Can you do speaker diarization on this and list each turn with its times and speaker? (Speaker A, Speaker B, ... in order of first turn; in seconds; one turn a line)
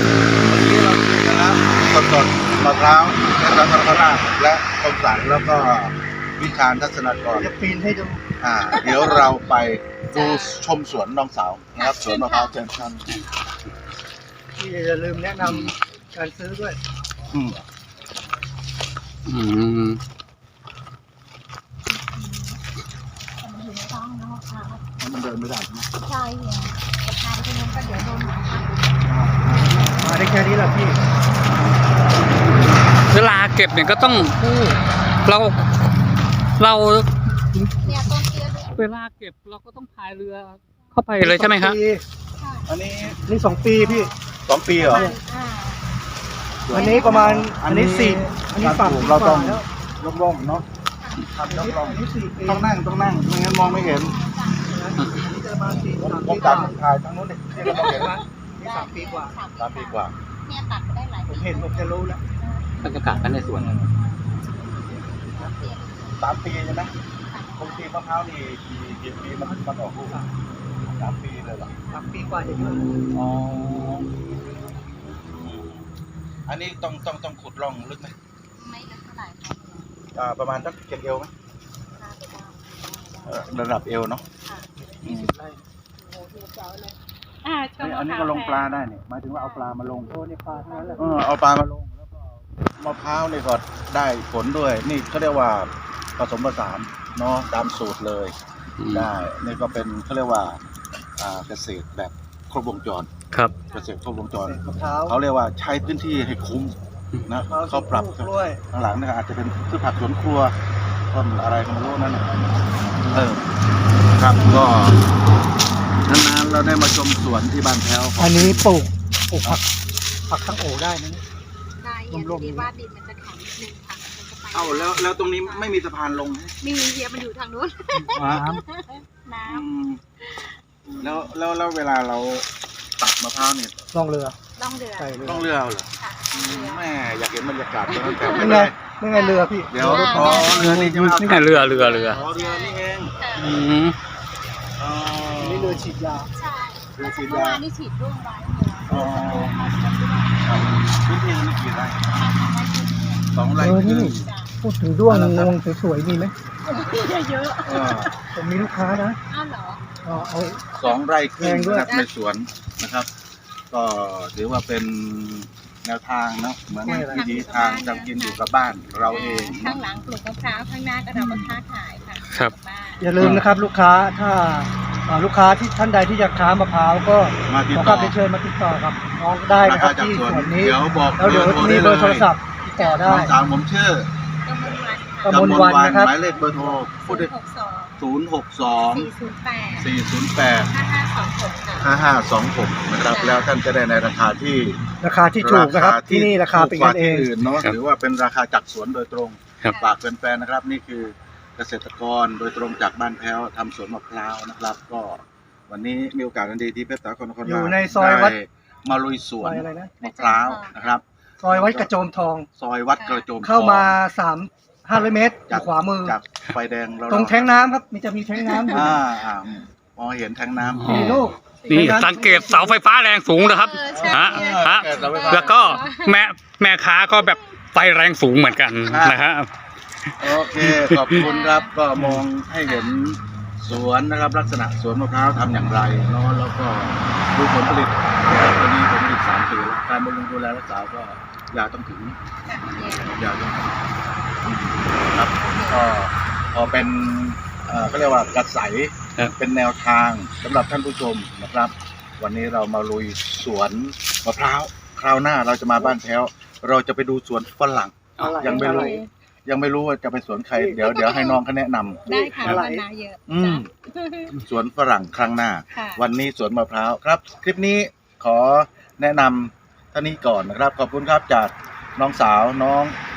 Speaker A: 0.4-7.5
Speaker B: 7.3-8.2
Speaker A: 8.4-13.1
Speaker C: 8.7-9.2
Speaker C: 10.1-10.6
Speaker C: 11.7-13.2
Speaker B: 14.6-16.8
Speaker D: 15.4-15.7
Speaker A: 17.3-17.6
Speaker D: 19.2-20.0
Speaker C: 21.9-22.6
Speaker C: 23.4-24.8
Speaker A: 25.0-25.9
Speaker C: 26.0-29.9
Speaker A: 29.1-29.8
Speaker B: 29.5-31.0
Speaker D: 33.1-35.6
Speaker D: 36.6-37.1
Speaker C: 37.8-38.8
Speaker D: 38.7-41.8
Speaker B: 41.2-42.0
Speaker C: 42.4-44.2
Speaker A: 42.7-43.2
Speaker B: 43.2-44.1
Speaker A: 44.5-45.1
Speaker C: 44.7-45.9
Speaker B: 44.9-45.2
Speaker A: 46.6-50.6
Speaker C: 46.7-47.4
Speaker B: 46.7-49.6
Speaker C: 51.0-51.2
Speaker A: 51.3-54.1
Speaker B: 51.5-52.7
Speaker C: 53.5-54.7
Speaker B: 54.7-56.8
Speaker A: 55.7-58.2
Speaker C: 56.4-56.6
Speaker B: 57.6-59.3
Speaker C: 57.7-66.4
Speaker A: 59.6-60.1
Speaker B: 61.3-62.2
Speaker D: 62.8-63.7
Speaker A: 63.5-63.9
Speaker B: 65.3-65.7
Speaker A: 66.2-66.9
Speaker C: 67.2-67.9
Speaker A: 67.6-70.2
Speaker B: 69.4-70.3
Speaker A: 70.8-71.7
Speaker C: 71.3-72.3
Speaker B: 71.9-73.0
Speaker A: 73.1-74.1
Speaker A: 75.2-75.8
Speaker A: 76.5-78.1
Speaker C: 78.5-79.9
Speaker A: 80.1-81.3
Speaker C: 81.9-83.5
Speaker A: 83.2-84.2
Speaker C: 84.4-85.3
Speaker B: 84.8-86.9
Speaker C: 87.4-91.2
Speaker A: 87.8-90.2
Speaker B: 90.1-91.2
Speaker A: 91.0-98.3
Speaker D: 98.8-99.1
Speaker A: 98.9-100.6
Speaker A: 101.2-103.1
Speaker A: 103.7-110.5
Speaker B: 104.4-105.2
Speaker B: 107.3-108.6
Speaker A: 111.1-112.5
Speaker A: 113.1-113.4
Speaker A: 114.1-115.0
Speaker C: 114.3-114.6
Speaker A: 116.0-118.8
Speaker B: 118.2-119.7
Speaker B: 120.3-121.2
Speaker C: 121.8-125.7
Speaker B: 122.1-122.7
Speaker A: 124.5-126.5
Speaker C: 126.6-129.7
Speaker B: 128.0-128.6
Speaker A: 128.1-128.5
Speaker A: 129.5-130.0
Speaker C: 130.2-131.3
Speaker A: 131.0-132.5
Speaker A: 133.0-133.7
Speaker B: 133.9-134.4
Speaker C: 134.6-135.4
Speaker B: 135.0-135.5
Speaker A: 135.2-138.7
Speaker C: 136.0-136.9
Speaker C: 137.9-140.7
Speaker B: 138.3-141.4
Speaker A: 139.7-143.1
Speaker D: 141.2-142.2
Speaker C: 141.8-143.6
Speaker D: 143.3-143.9
Speaker A: 144.8-145.9
Speaker B: 145.4-146.3
Speaker C: 146.3-150.8
Speaker A: 147.0-147.6
Speaker A: 148.9-149.7
Speaker A: 150.4-152.2
Speaker C: 152.1-153.3
Speaker A: 153.3-154.3
Speaker B: 153.6-156.3
Speaker C: 154.0-154.5
Speaker A: 155.1-155.6
Speaker C: 156.6-158.2
Speaker A: 157.6-158.1
Speaker B: 158.3-159.2
Speaker C: 159.3-160.9
Speaker B: 160.0-160.6
Speaker A: 160.8-163.1
Speaker B: 161.4-161.9
Speaker C: 161.8-162.1
Speaker A: 163.7-169.8
Speaker B: 166.8-167.4
Speaker C: 166.8-168.4
Speaker C: 169.1-173.2
Speaker A: 171.1-171.5
Speaker B: 173.0-183.3
Speaker A: 173.2-173.4
Speaker A: 177.5-178.2
Speaker A: 179.5-182.3
Speaker C: 182.6-183.1
Speaker A: 183.0-184.1
Speaker C: 184.4-185.6
Speaker A: 185.2-187.3
Speaker B: 185.2-186.7
Speaker C: 186.1-188.0
Speaker A: 188.0-189.1
Speaker C: 188.7-189.9
Speaker A: 189.8-190.7
Speaker C: 190.7-191.9
Speaker A: 191.8-194.8
Speaker C: 193.1-193.5
Speaker B: 195.0-197.3
Speaker A: 195.4-211.9
Speaker C: 199.7-199.9
Speaker B: 207.4-208.3
Speaker B: 209.4-209.9
Speaker C: 210.0-210.7
Speaker B: 211.4-212.5
Speaker A: 212.6-214.0
Speaker C: 213.0-213.2
Speaker B: 213.4-216.2
Speaker A: 215.5-217.7
Speaker B: 217.1-219.0
Speaker A: 218.6-221.2
Speaker D: 220.7-229.5
Speaker B: 220.8-222.8
Speaker C: 223.3-226.3
Speaker A: 223.9-225.8
Speaker A: 228.9-229.2
Speaker A: 230.2-242.2
Speaker C: 230.5-231.7
Speaker D: 230.7-231.2
Speaker D: 232.0-232.2
Speaker C: 232.6-233.1
Speaker C: 242.4-243.2
Speaker A: 243.0-243.8
Speaker A: 244.4-262.0
Speaker C: 245.5-245.8
Speaker D: 258.2-258.5
Speaker B: 258.2-259.0
Speaker C: 258.4-259.1
Speaker C: 260.8-261.4
Speaker B: 262.1-262.8
Speaker C: 262.1-264.4
Speaker A: 263.3-263.7
Speaker A: 264.4-272.9
Speaker C: 265.7-266.0